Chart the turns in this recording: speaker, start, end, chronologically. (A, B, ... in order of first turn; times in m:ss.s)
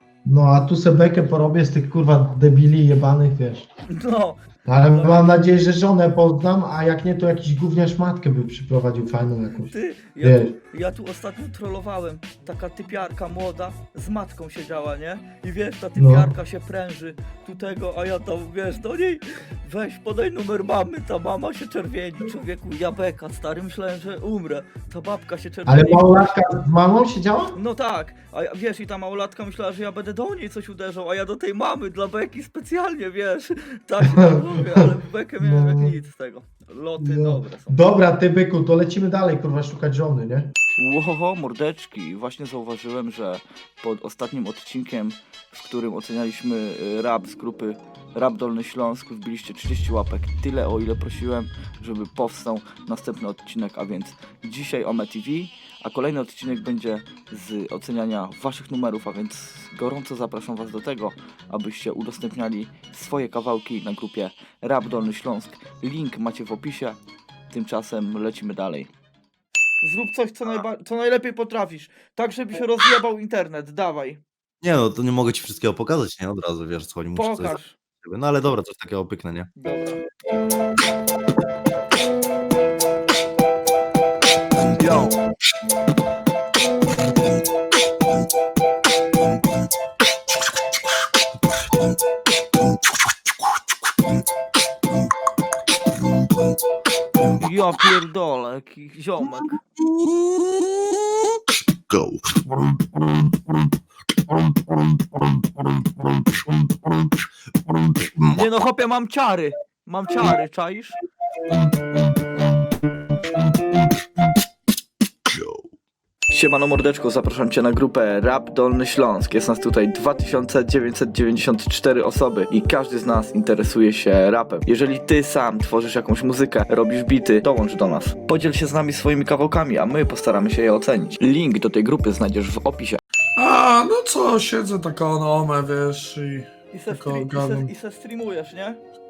0:00.2-0:03.7 A
0:03.9-0:05.4 B
0:04.7-0:10.6 A
0:09.7-0:26.3 B
0:16.0-0:16.3 A
0:25.7-0:27.6 A
0:27.6-0:37.8 B
0:35.4-0:36.0 A
0:37.0-0:40.5 A
0:40.8-1:07.0 B
1:07.5-1:08.9 B
1:09.8-1:14.2 B
1:14.6-1:19.5 C
1:17.2-1:17.8 B
1:19.6-1:20.0 B
1:24.8-1:25.2 B
1:37.4-1:39.6 B
1:41.9-1:42.2 C
1:48.0-1:48.4 C
1:48.3-1:51.0 B
1:56.3-2:13.0 B
2:13.4-2:17.7 D
2:16.7-2:18.8 B